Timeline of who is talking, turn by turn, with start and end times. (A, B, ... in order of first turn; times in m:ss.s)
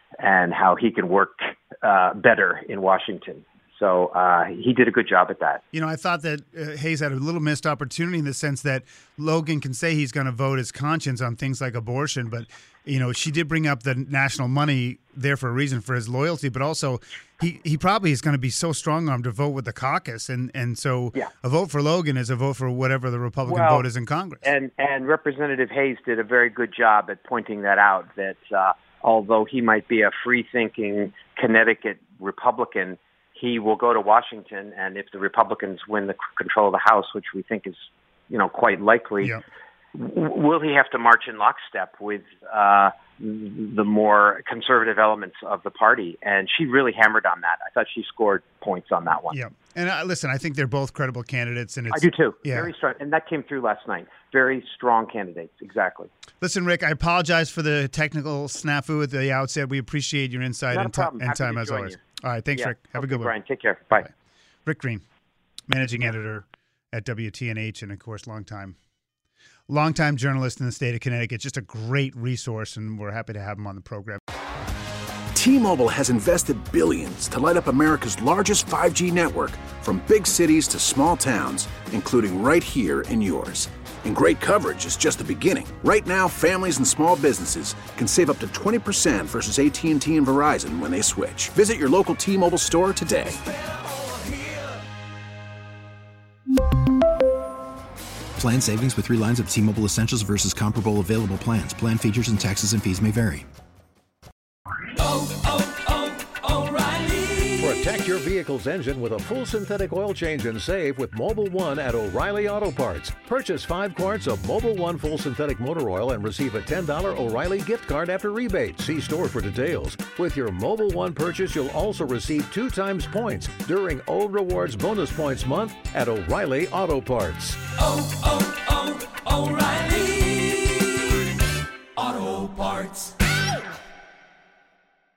0:00.2-0:05.6 A
0:05.7-0:24.4 B
0:23.5-0:23.8 A
0:24.4-0:37.8 A
0:38.3-0:39.4 A
0:39.9-0:49.4 A
0:49.3-0:52.7 B
0:51.9-0:56.1 A
0:56.4-1:03.3 B
1:00.7-1:02.0 A
1:02.5-1:04.1 A
1:04.6-1:05.0 B
1:05.7-1:08.8 B
1:09.7-1:14.2 B
1:15.3-1:33.4 C
1:38.4-1:43.5 D
1:45.2-1:45.6 E
1:46.6-2:07.8 E
2:09.4-2:10.4 E
2:12.0-2:13.1 E